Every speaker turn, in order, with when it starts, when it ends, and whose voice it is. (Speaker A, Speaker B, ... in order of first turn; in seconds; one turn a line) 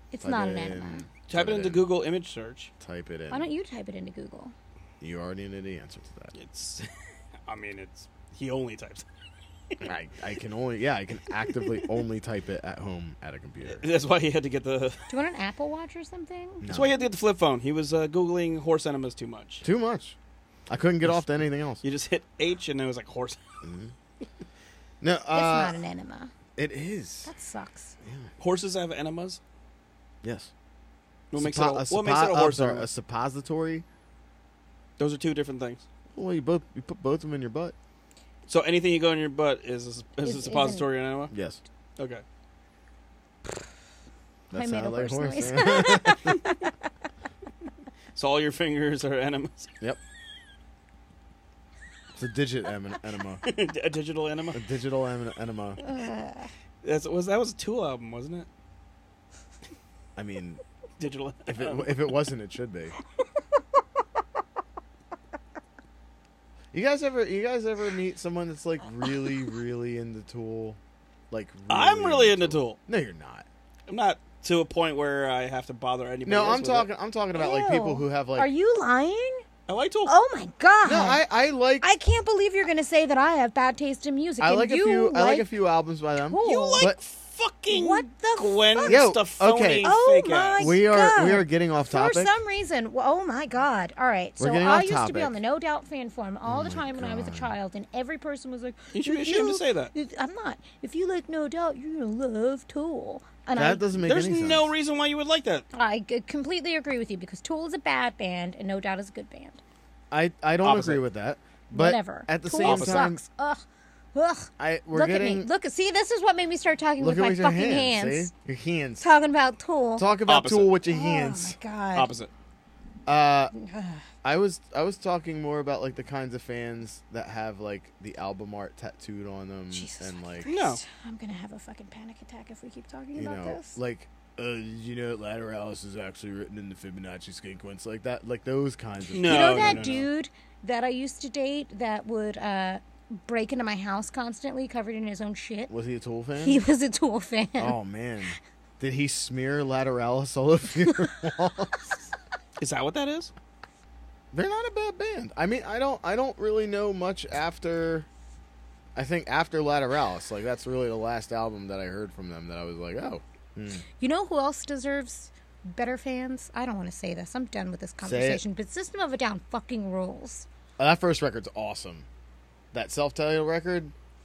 Speaker A: 0.1-1.1
Speaker B: 0.2-1.9
Speaker C: 1.3-2.7
Speaker B: 2.8-3.5
Speaker A: 3.3-4.5
Speaker B: 5.0-6.3
Speaker C: 6.3-6.8
Speaker C: 7.5-9.1
Speaker B: 9.8-13.8
Speaker C: 11.6-11.9
Speaker C: 13.7-15.1
Speaker A: 15.1-16.7
Speaker B: 16.6-16.9
Speaker C: 16.7-19.6
Speaker B: 19.6-20.1
Speaker B: 20.7-21.8
Speaker C: 21.8-23.4
Speaker B: 23.6-23.9
Speaker B: 25.0-25.8
Speaker A: 25.3-26.3
Speaker B: 26.6-27.3
Speaker A: 27.2-27.9
Speaker B: 28.0-28.3
Speaker C: 28.4-29.4
Speaker B: 30.2-30.5
Speaker C: 31.3-32.9
Speaker B: 31.3-33.8
Speaker C: 35.0-35.8
Speaker B: 36.1-37.7
Speaker C: 38.5-41.3
Speaker A: 40.2-40.9
Speaker B: 41.3-41.6
Speaker C: 42.0-42.2
Speaker B: 44.5-46.4
Speaker A: 44.5-46.7
Speaker C: 48.1-49.7
Speaker B: 52.1-53.4
Speaker C: 53.4-54.6
Speaker B: 54.5-55.8
Speaker A: 55.8-56.5
Speaker C: 56.8-58.5
Speaker B: 60.1-60.6
Speaker C: 61.0-62.0
Speaker B: 61.5-63.0
Speaker B: 66.7-70.8
Speaker B: 71.3-73.5
Speaker C: 71.7-72.8
Speaker C: 73.9-76.9
Speaker B: 76.2-78.5
Speaker A: 77.3-79.4
Speaker C: 79.7-80.1
Speaker A: 80.0-81.2
Speaker B: 80.8-81.9
Speaker A: 81.8-85.5
Speaker B: 84.4-87.0
Speaker A: 86.3-86.8
Speaker C: 86.4-90.8
Speaker A: 87.7-89.1
Speaker B: 88.8-89.9
Speaker A: 89.8-103.9
Speaker B: 90.6-92.3
Speaker B: 94.4-95.4
Speaker B: 96.5-97.5
Speaker C: 98.9-99.9
Speaker B: 103.5-104.7
Speaker C: 104.0-105.7
Speaker A: 105.7-109.6
Speaker B: 110.1-113.2
Speaker C: 110.6-111.0
Speaker A: 111.7-113.6
Speaker C: 112.6-113.1
Speaker A: 114.1-118.3
Speaker B: 114.6-115.5
Speaker B: 117.0-119.1
Speaker A: 119.0-120.1
Speaker B: 120.0-121.6
Speaker C: 120.3-120.7
Speaker A: 120.8-122.1
Speaker C: 121.9-122.3
Speaker B: 123.0-123.5
Speaker A: 123.5-124.1
Speaker B: 124.2-130.5
Speaker A: 129.7-133.8
Speaker C: 130.4-130.8
Speaker B: 133.2-140.1
Speaker C: 139.1-140.1
Speaker A: 139.2-145.7
Speaker B: 145.7-146.6
Speaker A: 146.4-147.8
Speaker B: 147.6-152.0
Speaker C: 152.6-153.3
Speaker B: 154.3-158.1
Speaker B: 158.9-163.8
Speaker A: 164.0-170.4
Speaker B: 168.0-168.4
Speaker B: 170.8-172.1
Speaker B: 172.7-173.9